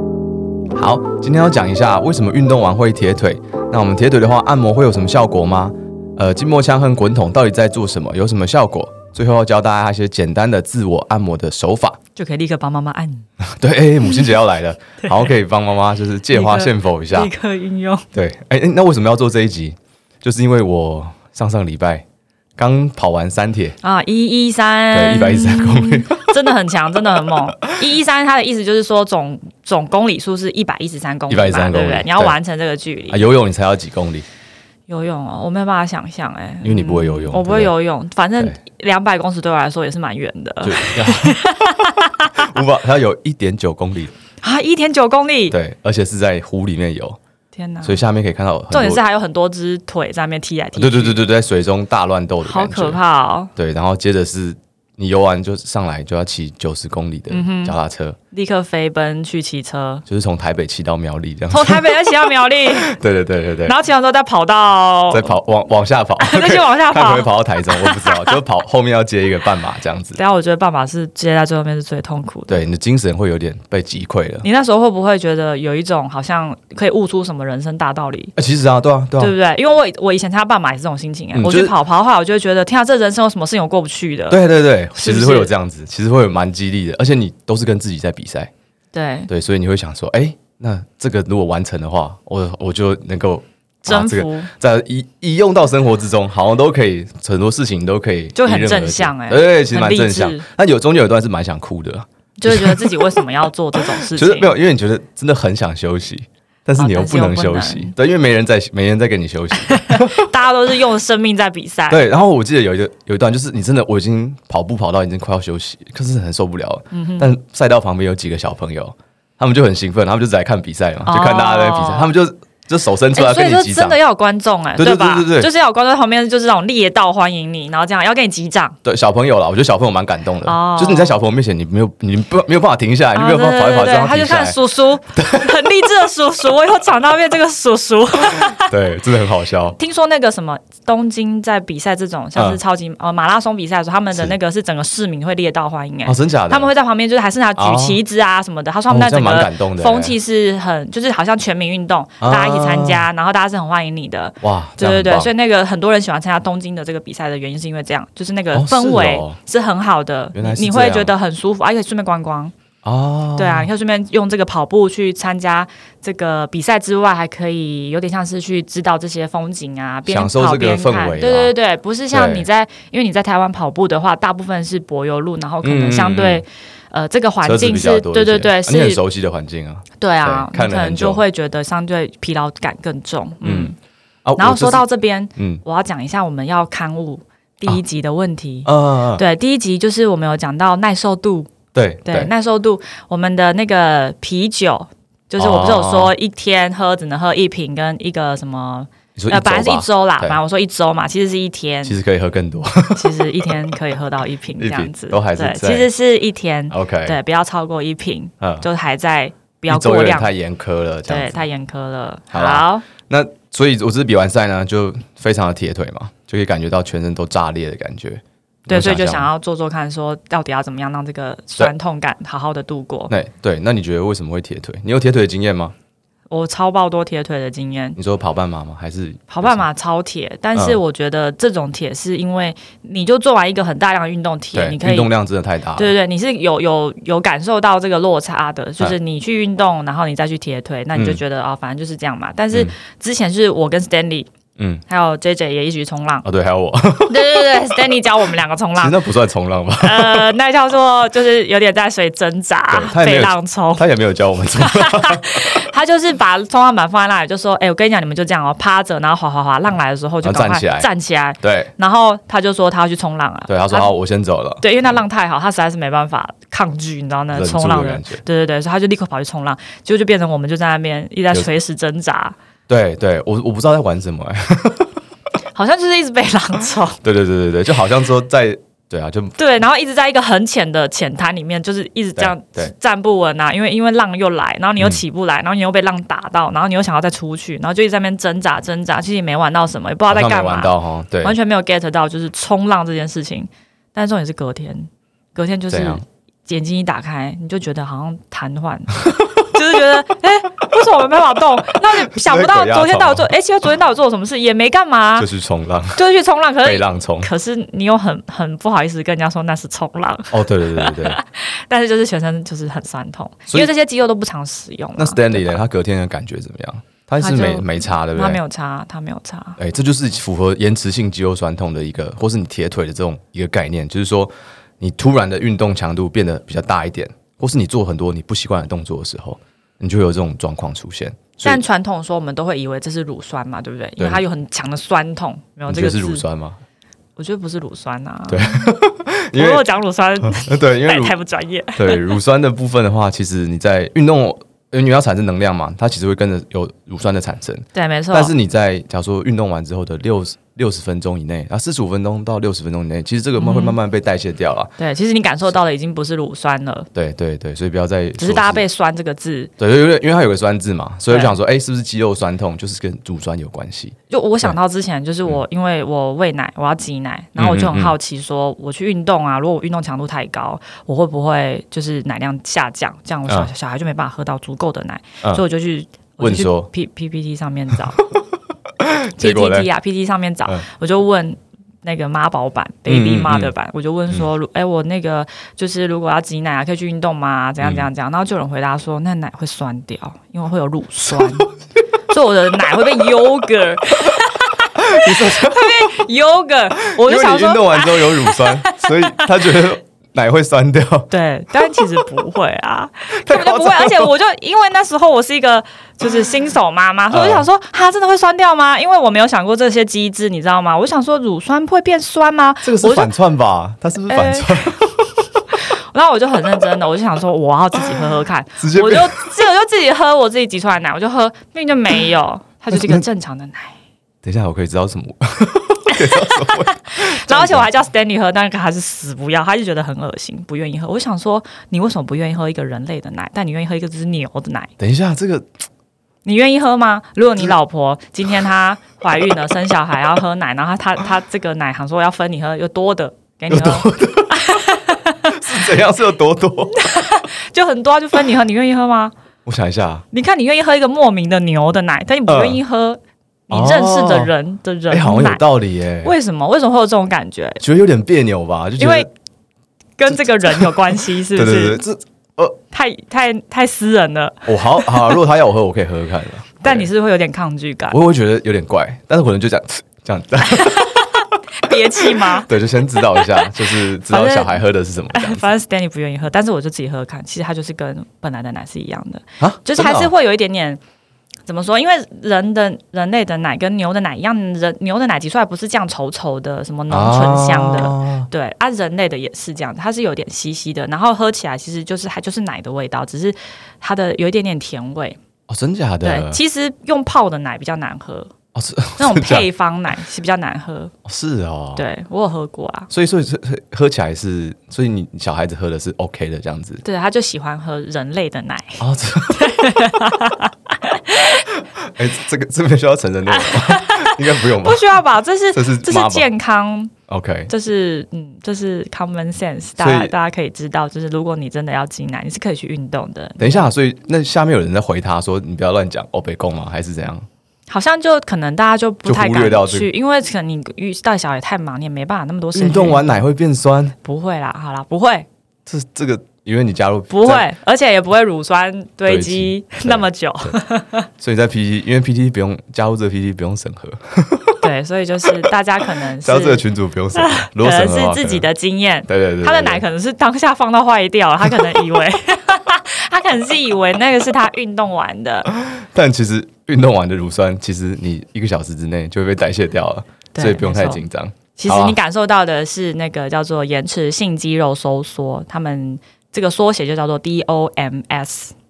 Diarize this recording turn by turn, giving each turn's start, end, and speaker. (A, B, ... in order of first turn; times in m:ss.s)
0:00.8-0:12.0 A
0:12.2-0:13.3 B
0:13.5-0:17.3 A
0:14.0-0:14.3 B
0:15.0-0:15.4 B
0:16.3-0:18.1 B
0:18.1-0:22.0 A
0:22.6-0:23.8 A
0:23.8-0:33.3 B
0:24.9-0:26.4 A
0:31.3-0:32.4 A
0:33.1-0:34.2 A
0:34.9-0:42.6 B
0:36.6-0:37.7 A
0:40.6-0:41.4 A
0:42.3-0:44.1 A
0:44.4-0:45.6 B
0:45.5-0:47.2 A
0:47.5-0:48.0 B
0:47.8-0:49.0 A
0:48.7-0:51.2 B
0:50.8-0:53.0 A
0:52.4-0:53.5 B
0:53.6-0:58.2 A
0:57.3-0:57.8 B
0:58.3-1:00.0 B
1:00.1-1:03.8 A
1:01.5-1:03.0 B
1:03.6-1:05.3 B
1:05.1-1:10.2 A
1:06.2-1:08.4 B
1:10.2-1:12.6 B
1:12.5-1:14.5 A
1:14.4-1:18.3 B
1:18.4-1:19.4 A
1:19.2-1:24.4 B
1:21.4-1:21.7 A
1:24.3-1:28.5 A
1:25.0-1:25.5 B
1:28.9-1:29.3 B
1:29.3-1:43.3 A
1:33.9-1:34.5 B
1:38.4-1:40.4 B
1:42.4-1:44.5 B
1:43.8-1:50.3 A
1:46.8-1:47.9 B
1:49.7-1:52.1 B
1:51.9-2:04.0 A
1:56.9-1:57.3 B
2:01.1-2:02.1 B
2:03.2-2:08.8 B
2:04.8-2:05.5 A
2:08.8-2:14.6 A
2:10.4-2:11.2 B
2:13.1-2:18.7 B
2:15.1-2:15.7 A
2:18.3-2:19.8 A
2:19.8-2:42.5 B
2:22.4-2:22.6 A
2:26.1-2:26.7 A
2:27.6-2:28.0 A
2:28.9-2:30.2 A
2:32.2-2:33.1 A
2:34.4-2:35.3 A
2:38.5-2:39.4 A
2:40.3-2:41.1 A
2:42.8-2:43.7 A
2:43.4-2:59.0 B
2:50.1-2:51.5 A
2:52.1-2:52.5 A
2:55.6-2:56.4 A
2:57.4-3:01.2 A
3:00.0-3:03.8 B
3:03.4-3:05.6 A
3:04.4-3:11.5 B
3:08.6-3:09.2 A
3:11.7-3:12.3 A
3:12.0-3:22.0 B
3:15.4-3:16.1 A
3:19.2-3:20.4 A
3:21.8-3:23.8 A
3:23.0-3:30.3 B
3:24.6-3:25.9 A
3:26.7-3:27.2 A
3:28.4-3:28.7 A
3:29.7-3:31.4 A
3:31.1-3:32.8 B
3:32.3-3:39.3 A
3:38.7-3:43.1 B
3:43.1-3:45.8 A
3:46.3-3:48.0 B
3:48.0-3:49.7 A
3:49.3-3:55.1 B
3:54.5-3:55.9 A
3:55.8-4:04.3 B
4:01.0-4:01.2 A
4:04.9-4:06.3 B
4:06.2-4:07.4 A
4:07.1-4:09.0 B
4:08.8-4:10.3 A
4:09.8-4:13.8 B
4:12.7-4:15.7 A
4:14.6-4:23.9 B
4:20.2-4:20.9 A
4:21.4-4:21.7 A
4:23.5-4:24.6 A
4:24.6-4:32.4 B
4:27.3-4:28.2 A
4:32.7-4:35.0 A
4:35.5-4:37.0 B
4:37.0-4:39.4 A
4:39.4-5:05.3 B
4:42.2-4:42.7 A
4:50.1-4:51.4 A
4:55.7-4:56.0 A
4:59.0-4:59.5 A
5:02.0-5:03.3 A
5:05.2-5:06.0 A
5:06.0-5:15.6 B
5:06.6-5:07.3 A
5:10.3-5:11.2 A
5:15.0-5:18.4 A
5:17.2-5:19.6 B
5:19.6-5:31.6 A
5:31.4-5:36.2 B
5:35.7-5:36.6 A
5:37.2-5:38.8 B
5:38.3-5:39.6 A
5:39.3-5:42.2 B
5:40.2-5:41.2 A
5:41.8-5:54.7 A
5:47.7-5:48.3 B
5:53.4-5:53.8 B
5:54.8-5:56.9 B
5:56.9-5:58.6 A
5:58.2-5:59.5 B
5:59.6-6:04.6 A
6:01.1-6:01.4 B
6:04.1-6:18.0 B
6:07.4-6:08.0 A
6:16.2-6:16.7 A
6:18.8-6:19.7 A
6:19.2-6:31.5 B
6:22.9-6:23.5 A
6:27.6-6:27.9 A
6:31.2-6:31.5 A
6:32.1-6:39.3 B
6:32.8-6:33.0 A
6:34.8-6:36.0 A
6:36.8-6:42.1 A
6:41.1-6:53.1 B
6:43.1-6:44.1 A
6:47.1-6:47.5 A
6:52.6-6:55.0 A
6:54.1-6:54.8 B
6:55.9-7:03.8 B
6:58.6-6:59.3 A
7:02.7-7:03.0 A
7:04.2-7:07.7 A
7:05.9-7:14.7 B
7:14.8-7:15.5 A
7:16.2-7:25.6 B
7:23.5-7:24.6 A
7:25.3-7:26.8 A
7:26.7-7:29.1 B
7:29.5-7:30.0 A
7:30.1-7:35.4 B
7:32.3-7:32.6 A
7:33.5-7:34.3 A
7:34.9-7:36.2 A
7:36.0-7:37.6 B
7:37.6-7:39.1 A
7:38.8-7:39.1 B
7:40.0-7:41.8 B
7:40.4-7:42.6 A
7:42.7-7:45.2 B
7:44.5-7:46.9 A
7:46.6-7:48.0 B
7:47.9-7:51.0 A
7:50.5-7:54.6 B
7:51.7-7:55.5 A
7:55.1-8:00.8 B
7:59.4-8:00.1 A
8:01.5-8:15.2 B
8:06.9-8:08.3 A
8:15.5-8:16.4 A
8:16.0-8:18.3 B
8:18.5-8:19.5 A
8:19.0-8:20.9 B
8:21.0-8:21.8 A
8:21.8-8:22.9 B
8:22.9-8:26.8 A
8:26.8-8:31.5 B
8:28.8-8:29.7 A
8:31.8-8:34.9 A
8:33.3-8:36.9 B
8:35.5-8:36.3 A
8:37.1-8:37.5 A
8:37.5-8:43.7 B
8:39.8-8:40.1 A
8:43.4-8:47.3 A
8:47.7-8:53.2 B
8:49.0-8:49.9 A
8:52.6-8:54.0 A
8:54.0-8:55.3 B
8:55.7-8:57.5 A
8:57.1-9:01.1 B
8:59.1-9:00.6 A
9:01.2-9:04.6 A
9:04.6-9:06.6 B
9:06.2-9:08.5 A
9:07.2-9:15.5 B
9:09.1-9:09.8 A
9:15.5-9:22.0 A
9:20.4-9:21.0 B
9:21.6-9:28.5 B